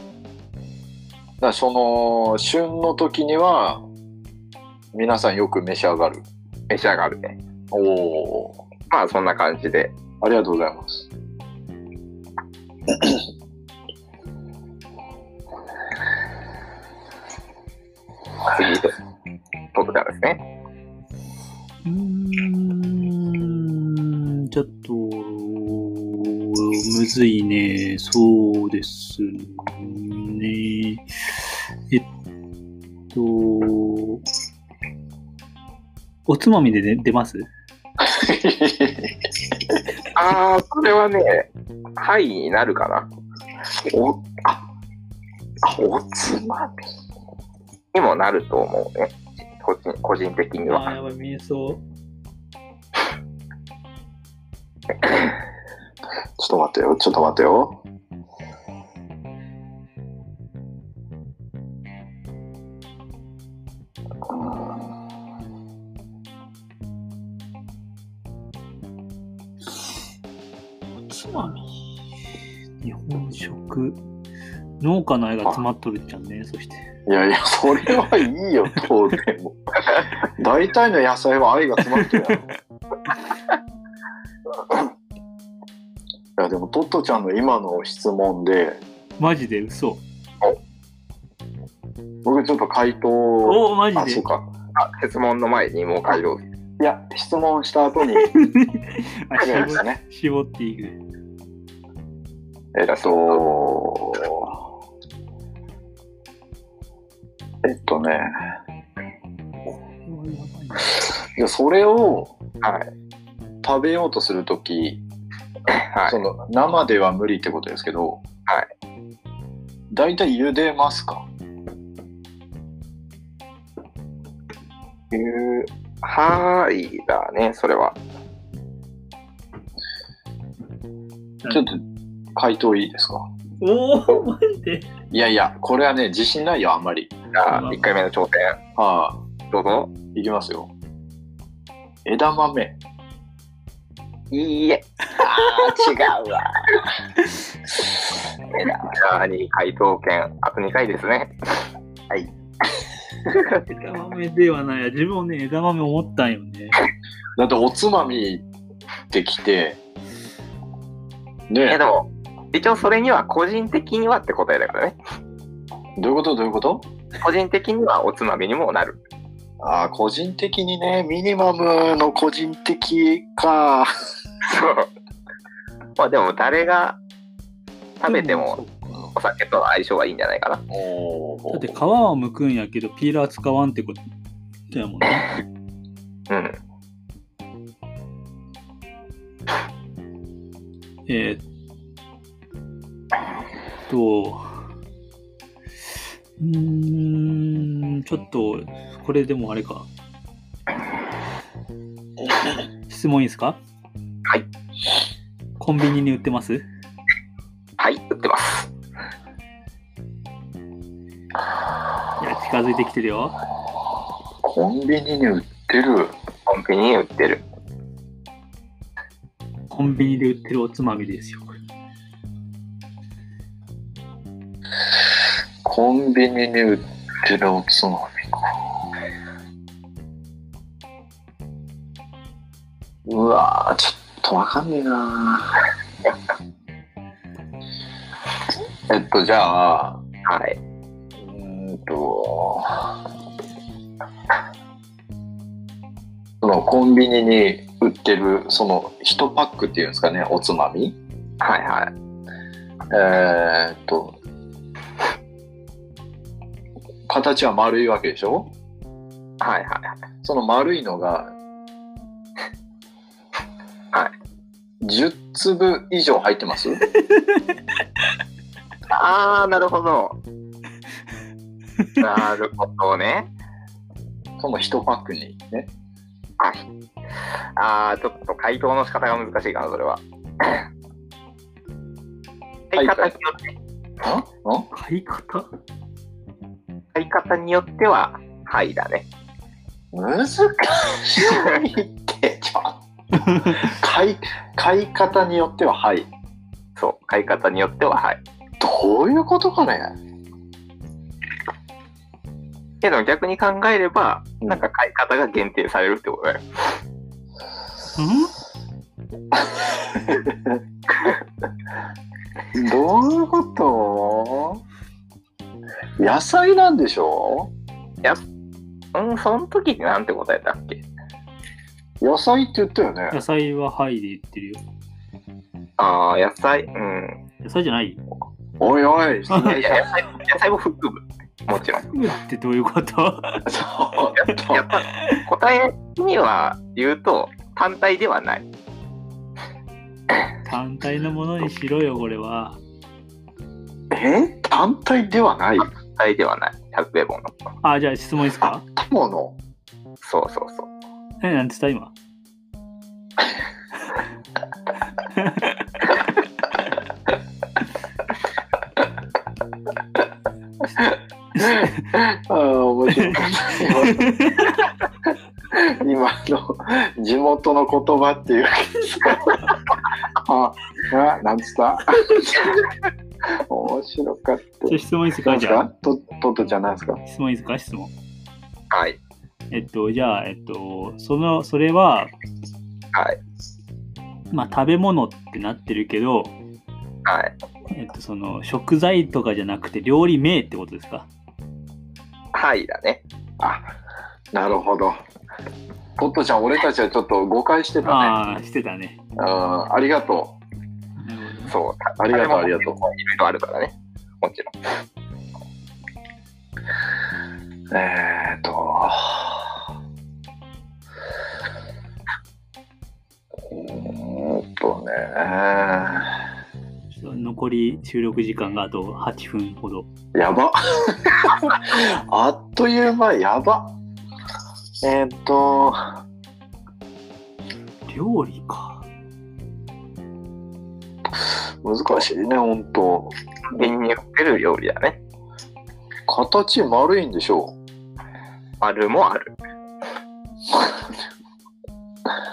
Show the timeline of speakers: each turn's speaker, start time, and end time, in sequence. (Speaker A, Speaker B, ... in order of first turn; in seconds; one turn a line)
Speaker A: 1.4-3.9
Speaker A: 4.9-6.2
Speaker B: 6.7-7.4
Speaker A: 7.7-8.6
Speaker B: 8.9-9.9
Speaker A: 10.2-11.1
Speaker B: 18.5-18.9
Speaker B: 19.7-20.4
Speaker C: 21.9-31.1
Speaker C: 33.1-34.2
Speaker C: 36.3-37.5
Speaker A: 38.0-39.8
Speaker B: 40.1-43.1
Speaker A: 43.8-44.6
Speaker A: 45.6-46.7
Speaker B: 47.9-50.9
Speaker C: 50.7-51.8
Speaker A: 56.4-57.8
Speaker A: 64.3-64.9
Speaker C: 71.1-71.7
Speaker C: 72.8-74.0
Speaker C: 74.8-76.9
Speaker A: 77.1-82.5
Speaker C: 82.0-82.4
Speaker A: 86.4-88.8
Speaker C: 89.2-90.0
Speaker A: 92.2-94.5
Speaker C: 93.5-94.2
Speaker B: 94.8-96.4
Speaker A: 96.8-98.3
Speaker C: 98.2-101.0
Speaker A: 99.4-100.0
Speaker A: 102.8-104.6
Speaker B: 103.0-103.4
Speaker A: 107.6-108.3
Speaker C: 110.0-111.0
Speaker A: 111.3-112.4
Speaker B: 112.6-112.9
Speaker A: 113.6-115.0
Speaker B: 115.7-116.2
Speaker A: 116.1-118.2
Speaker A: 119.9-121.3
Speaker B: 125.1-128.0
Speaker A: 131.5-131.8
Speaker A: 132.4-133.3
Speaker C: 133.6-134.9
Speaker A: 135.1-137.1
Speaker B: 137.3-138.6
Speaker C: 137.5-137.8
Speaker A: 138.8-139.2
Speaker B: 139.5-139.9
Speaker A: 140.1-140.7
Speaker A: 142.1-142.8
Speaker B: 144.3-146.8
Speaker B: 148.6-151.4
Speaker B: 153.3-153.6
Speaker C: 153.7-156.8
Speaker A: 157.4-158.4
Speaker A: 159.1-159.8
Speaker A: 161.5-161.8
Speaker B: 161.7-165.0
Speaker A: 166.0-166.9
Speaker B: 167.2-169.0
Speaker A: 169.6-173.9
Speaker B: 174.4-174.9
Speaker B: 176.0-177.0
Speaker B: 178.0-178.6
Speaker C: 178.1-179.0
Speaker B: 179.2-180.6
Speaker A: 180.7-181.8
Speaker C: 181.5-184.0
Speaker C: 184.7-185.4
Speaker B: 186.3-186.6
Speaker C: 191.1-191.4
Speaker C: 193.9-194.5
Speaker C: 196.4-199.9
Speaker C: 202.9-203.6
Speaker C: 205.6-206.7
Speaker B: 207.8-208.7
Speaker C: 212.2-213.4
Speaker A: 214.4-216.1
Speaker B: 216.5-217.4
Speaker C: 219.7-221.6
Speaker A: 225.6-228.6
Speaker A: 233.1-235.6
Speaker A: 238.9-240.0
Speaker B: 240.3-240.6
Speaker A: 241.2-243.0
Speaker A: 246.4-251.0
Speaker B: 251.4-251.9
Speaker A: 252.9-254.2
Speaker A: 257.1-258.5
Speaker B: 259.4-260.0
Speaker A: 260.2-261.4
Speaker A: 264.8-266.8
Speaker C: 267.0-267.4
Speaker B: 268.9-270.2
Speaker B: 272.0-273.3
Speaker A: 274.4-275.7
Speaker B: 276.4-276.7
Speaker B: 277.6-280.6
Speaker B: 282.7-283.5
Speaker A: 282.8-283.1
Speaker A: 284.0-284.7
Speaker C: 284.7-285.5
Speaker B: 286.9-289.1
Speaker A: 289.9-292.8
Speaker C: 293.3-293.6
Speaker A: 293.4-296.1
Speaker B: 296.8-298.2
Speaker A: 298.6-299.9
Speaker B: 302.8-306.4
Speaker C: 308.0-308.3
Speaker A: 310.1-310.6
Speaker A: 312.5-314.6
Speaker A: 316.0-317.5
Speaker B: 318.9-320.8
Speaker A: 322.0-323.2
Speaker C: 323.1-324.6
Speaker B: 325.8-327.2
Speaker C: 327.4-328.0
Speaker A: 328.6-329.9
Speaker B: 329.6-331.9
Speaker C: 331.9-333.5
Speaker A: 333.5-334.7
Speaker B: 334.2-338.4
Speaker C: 340.4-342.6
Speaker A: 343.9-345.7
Speaker B: 345.9-347.3
Speaker C: 347.6-348.6
Speaker A: 348.4-349.4
Speaker B: 350.0-350.7
Speaker C: 351.2-351.9
Speaker C: 355.0-355.9
Speaker A: 360.7-364.1
Speaker C: 361.4-361.6
Speaker C: 363.0-364.6
Speaker A: 365.5-369.4
Speaker A: 370.1-372.7
Speaker A: 373.2-377.0
Speaker C: 374.7-375.6
Speaker C: 377.1-377.9
Speaker B: 378.7-379.0
Speaker C: 379.5-382.1
Speaker B: 382.9-383.2
Speaker C: 384.3-386.4
Speaker B: 387.1-387.3
Speaker C: 387.7-391.1
Speaker B: 392.3-393.0
Speaker A: 393.4-393.7
Speaker A: 394.3-395.0
Speaker A: 396.0-398.2
Speaker C: 397.8-399.0
Speaker A: 399.2-400.4
Speaker C: 401.0-401.6
Speaker B: 401.5-404.5
Speaker A: 402.0-402.8
Speaker A: 407.7-409.6
Speaker A: 413.5-416.2
Speaker C: 416.9-419.9
Speaker A: 420.1-423.8
Speaker A: 424.8-426.0
Speaker C: 427.9-428.9
Speaker A: 431.2-433.7
Speaker B: 433.5-435.0
Speaker A: 436.1-437.6
Speaker B: 438.6-439.3